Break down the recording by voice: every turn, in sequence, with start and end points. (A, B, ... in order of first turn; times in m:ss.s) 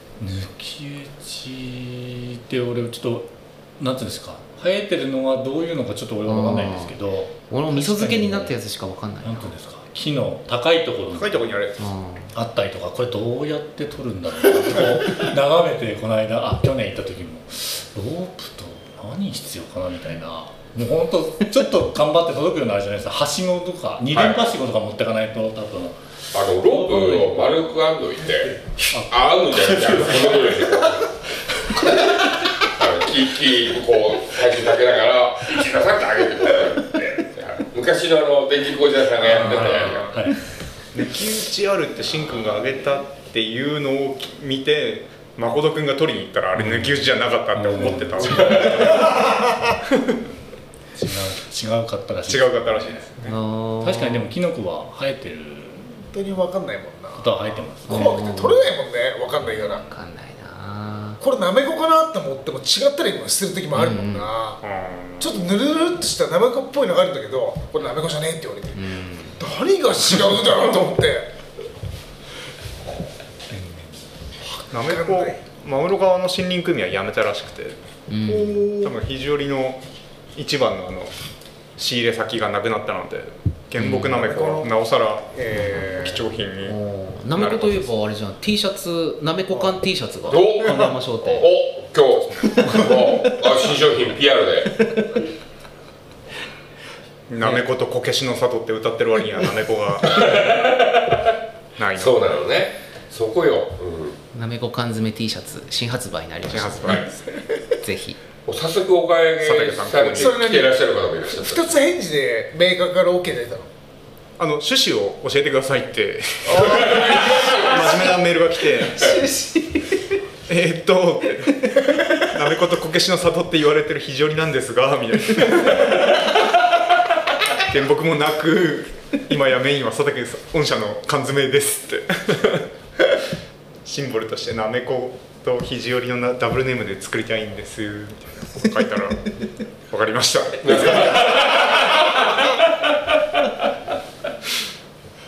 0:00.2-0:08.6 A
0:06.2-0:07.0 B
0:07.5-0:09.6 B
0:09.2-0:11.5 A
0:11.2-0:11.9 C
0:11.8-0:12.3 B
0:12.3-0:26.0 A
0:24.1-0:24.4 D
0:26.3-0:31.1 D
0:26.7-0:27.3 A
0:28.8-0:29.2 A
0:29.9-0:30.4 A
0:32.6-0:40.0 D
0:39.2-0:40.2 C
0:39.4-0:40.6 A
0:40.9-0:49.1 C
0:46.5-0:49.2 A
0:48.4-0:48.8 D
0:50.9-0:53.1 A
0:52.3-0:53.4 C
0:53.2-0:54.3 B
0:53.8-0:55.9 A
0:56.0-0:59.8 E
0:57.1-0:58.2 A
0:57.8-0:58.6 B
0:59.5-1:01.2 B
1:01.2-1:04.6 E
1:03.7-1:04.3 B
1:04.6-1:05.4 C
1:05.2-1:08.8 E
1:08.7-1:09.4 B
1:09.4-1:11.3 E
1:14.4-1:19.8 C
1:14.9-1:15.4 E
1:18.1-1:18.7 B
1:18.3-1:18.9 E
1:20.3-1:21.1 C
1:21.8-1:26.8 C
1:23.8-1:24.2 B
1:24.1-1:24.8 E
1:25.3-1:26.1 E
1:25.5-1:31.4 B
1:27.3-1:28.0 C
1:30.3-1:34.8 D
1:37.3-1:40.4 C
1:40.1-1:41.2 D
1:41.8-1:42.2 C
1:41.9-1:44.2 D
1:44.3-1:47.0 B
1:46.5-1:47.4 C
1:47.8-1:48.2 B
1:48.4-1:51.7 D
1:49.4-1:50.4 C
1:50.1-1:53.7 E
1:54.4-1:59.1 C
1:56.5-1:57.8 D
1:58.9-2:00.0 B
2:00.5-2:06.2 C
2:07.6-2:12.7 C
2:13.8-2:19.3 C
2:19.9-2:21.4 C
2:20.6-2:22.5 D